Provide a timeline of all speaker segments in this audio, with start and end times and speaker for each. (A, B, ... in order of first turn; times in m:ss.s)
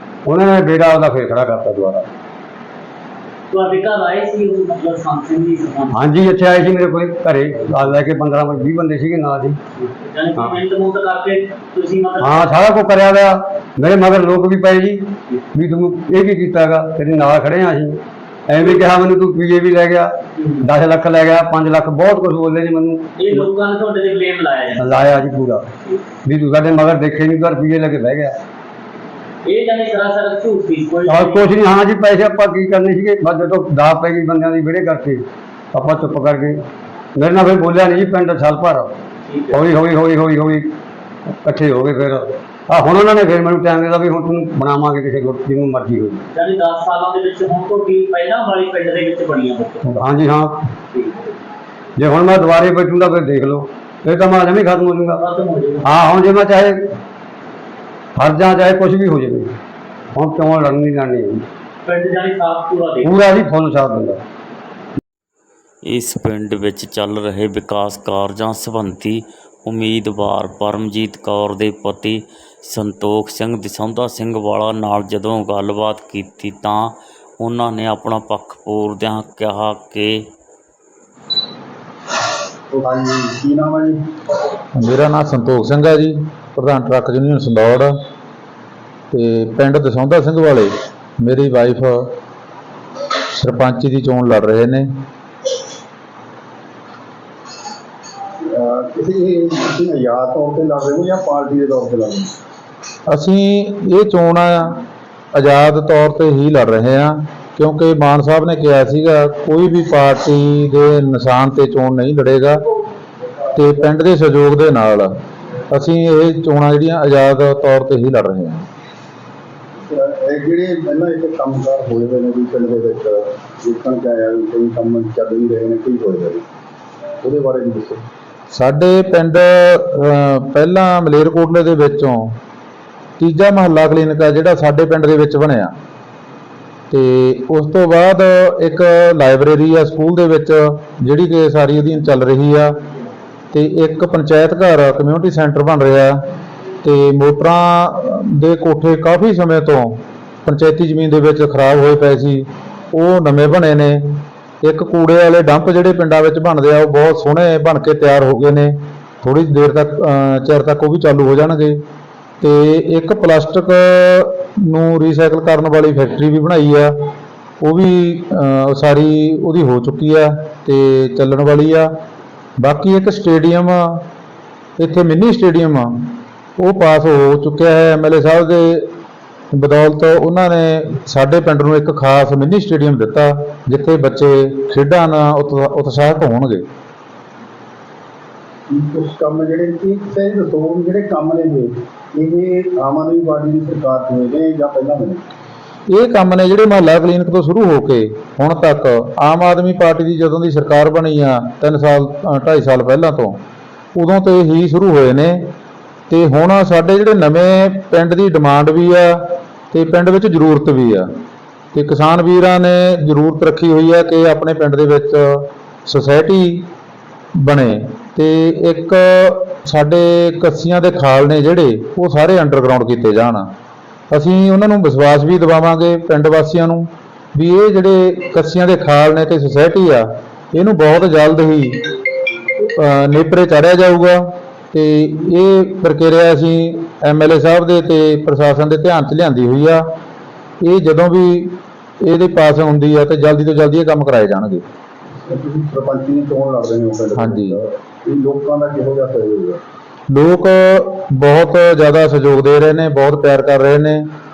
0:00.2-0:02.1 A
0:03.5-0:06.0 B
0:05.9-0:09.6 A
0:09.8-0:12.4 B
0:12.2-0:23.5 A
0:20.4-0:20.6 B
0:23.2-0:25.1 B
0:24.8-0:25.7 A
0:26.2-0:28.4 A
0:29.4-0:31.5 B
0:31.0-0:36.6 A
0:37.2-0:38.9 A
0:39.3-0:39.6 B
0:39.5-0:40.7 A
0:41.4-0:46.3 A
0:46.3-0:49.9 B
0:49.8-0:50.7 A
0:50.9-0:51.3 B
0:52.0-0:55.2 A
0:55.2-0:55.9 B
0:55.8-0:56.8 A
0:58.2-0:59.5 A
1:00.1-1:01.4 A
1:01.8-1:03.2 B
1:03.0-1:04.2 A
1:05.8-1:20.3 C
1:22.7-1:24.0 D
1:24.7-1:27.9 E
1:29.1-1:32.1 E
1:33.3-1:34.9 E
1:38.4-1:42.3 D
1:43.1-1:44.8 E
1:45.3-1:52.6 E
1:53.5-1:55.1 E
1:55.7-1:58.6 E
1:59.8-2:06.4 D
2:07.2-2:08.0 D
2:08.5-2:12.4 E
2:13.2-2:15.7 E
2:16.9-2:22.7 E
2:23.5-2:26.2 E
2:26.8-2:41.8 E
2:42.4-2:46.9 E
2:47.6-2:51.9 E
2:52.6-2:54.0 E
2:54.8-2:58.9 E
2:59.5-3:06.6 E
3:08.7-3:15.2 D
3:15.9-3:23.4 E
3:23.9-3:25.5 E
3:26.1-3:31.1 E
3:31.7-3:36.6 E
3:37.4-3:43.5 E
3:44.1-3:51.9 E
3:52.7-3:59.8 E
4:00.6-4:04.6 E
4:05.2-4:09.6 D
4:07.2-4:07.6 E
4:10.1-4:14.0 E